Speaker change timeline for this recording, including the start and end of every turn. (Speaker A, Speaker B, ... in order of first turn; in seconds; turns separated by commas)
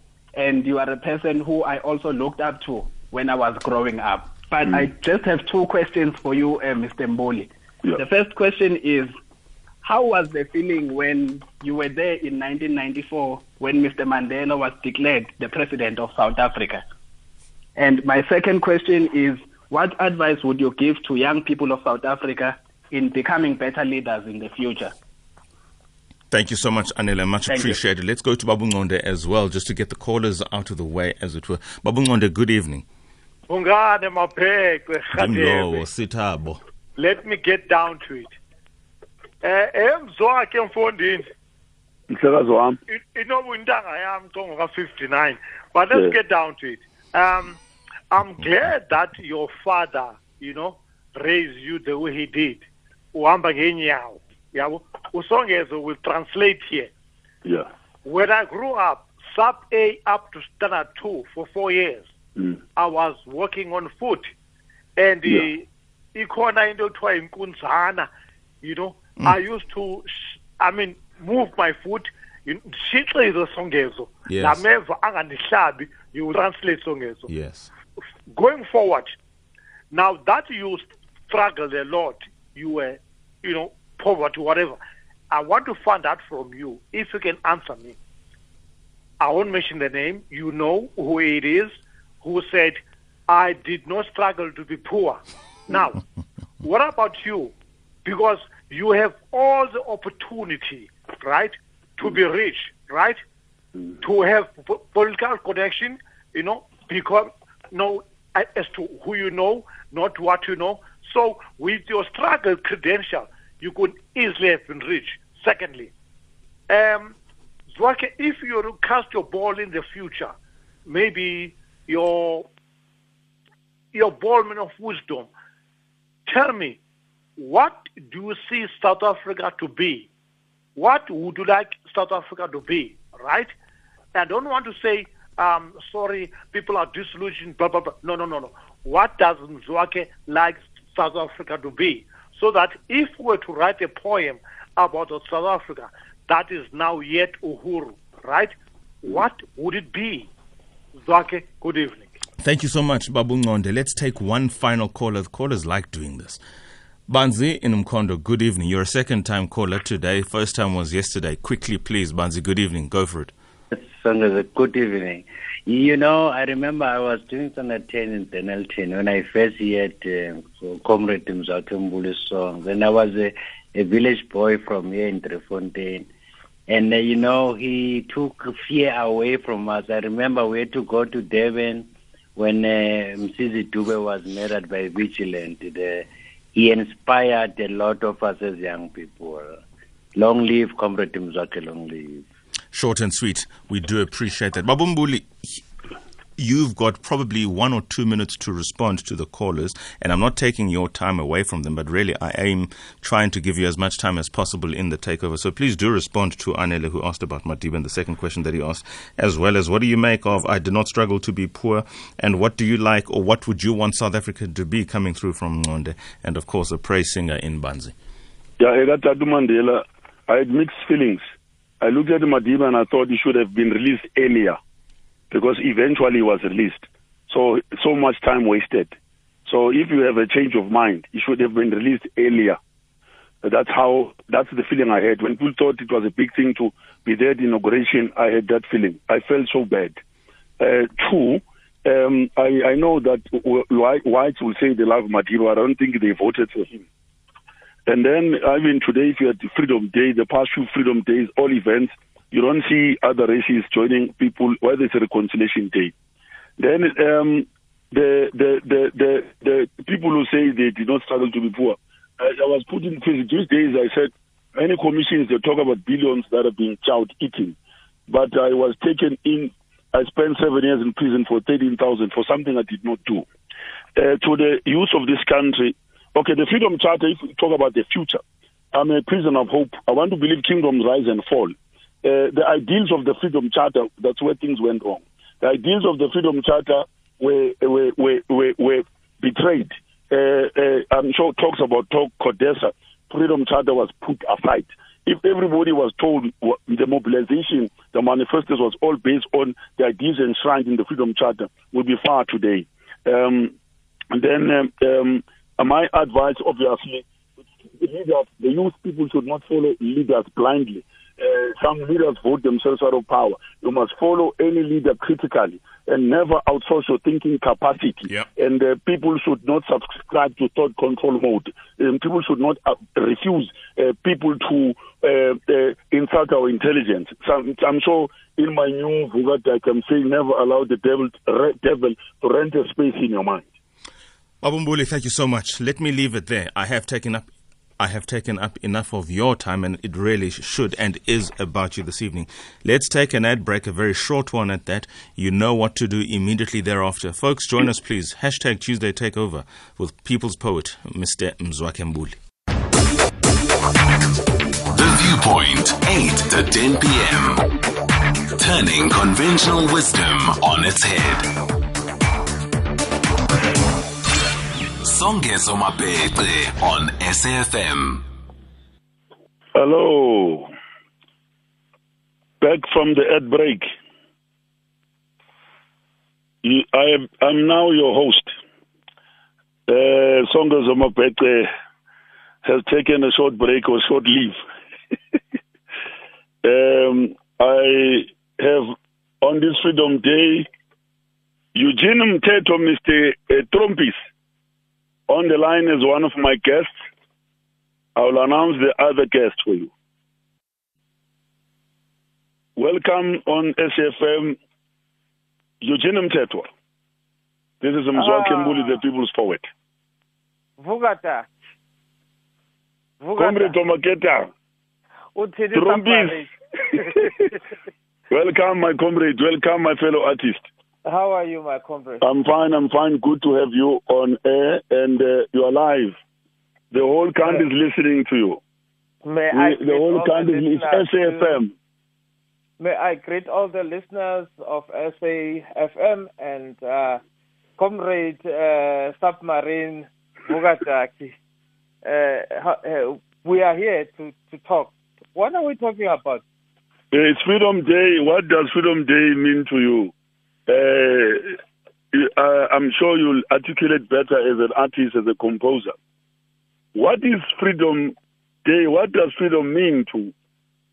Speaker A: 0.3-9.1, Speaker A: 9.8-16.8, Speaker A: 17.8-24.9, Speaker B: 26.3-32.8, Speaker A: 27.5-27.8, Speaker C: 33.5-35.8, Speaker B: 35.1-36.6, Speaker C: 37.0-38.3, Speaker C: 39.4-41.3, Speaker D: 42.1-42.8, Speaker C: 42.9-47.6, Speaker C: 48.1-56.9, Speaker C: 58.0-62.1, Speaker C: 62.8-64.3, Speaker C: 65.0-68.1, Speaker C: 68.6-77.3, Speaker B: 74.3-74.6, Speaker B: 77.3-77.7, Speaker C: 78.3-79.1, Speaker C: 79.9-84.8, Speaker C: 85.3-88.0, Speaker C: 89.2-96.0, Speaker C: 96.6-97.5, Speaker C: 98.0-103.2, Speaker C: 104.0-115.9, Speaker C: 116.7-117.1, Speaker C: 117.7-120.3, Speaker C: 120.8-122.5, Speaker C: 123.9-125.3, Speaker C: 126.3-126.8, Speaker C: 127.4-130.1, Speaker C: 130.8-133.5, Speaker C: 134.1-150.3, Speaker C: 151.0-152.2, Speaker B: 152.4-156.4, Speaker B: 157.1-163.3, Speaker E: 163.7-176.1, Speaker E: 176.7-189.6, Speaker E: 190.2-192.2, Speaker B: 192.7-195.6, Speaker B: 196.4-217.9, Speaker D: 218.6-221.2, Speaker D: 221.8-224.6, Speaker D: 225.3-228.9, Speaker D: 229.4-232.6, Speaker D: 233.4-239.9, Speaker D: 240.6-246.8, Speaker D: 247.8-255.9, Speaker D: 256.6-267.6, Speaker D: 268.1-273.3, Speaker D: 273.9-278.2, Speaker D: 278.7-303.5, Speaker D: 304.1-307.1, Speaker D: 307.7-333.5, Speaker B: 334.4-352.2, Speaker F: 354.7-357.4, Speaker F: 358.4-361.3, Speaker F: 364.8-368.0, Speaker D: 369.5-370.5, Speaker D: 372.4-373.6, Speaker D: 376.4-378.3, Speaker D: 379.7-381.5, Speaker D: 382.4-384.3, Speaker D: 386.4-390.5, Speaker D: 391.5-394.0, Speaker D: 395.1-396.7, Speaker D: 397.9-399.7, Speaker D: 402.6-404.4, Speaker D: 405.6-406.5, Speaker D: 407.6-409.4, Speaker G: 407.9-408.8, Speaker G: 410.6-411.3, Speaker G: 413.0-413.6, Speaker D: 413.2-414.3, Speaker G: 415.1-417.3, Speaker D: 415.5-416.2, Speaker D: 416.8-417.1, Speaker D: 418.1-420.4, Speaker G: 420.8-422.0, Speaker D: 422.0-425.9, Speaker D: 426.7-428.4, Speaker G: 429.0-431.4, Speaker D: 429.3-431.5, Speaker G: 432.6-437.0, Speaker G: 437.6-441.1, Speaker G: 441.8-446.2, Speaker D: 446.9-449.9, Speaker D: 450.5-451.4, Speaker D: 451.9-455.7, Speaker D: 456.7-460.1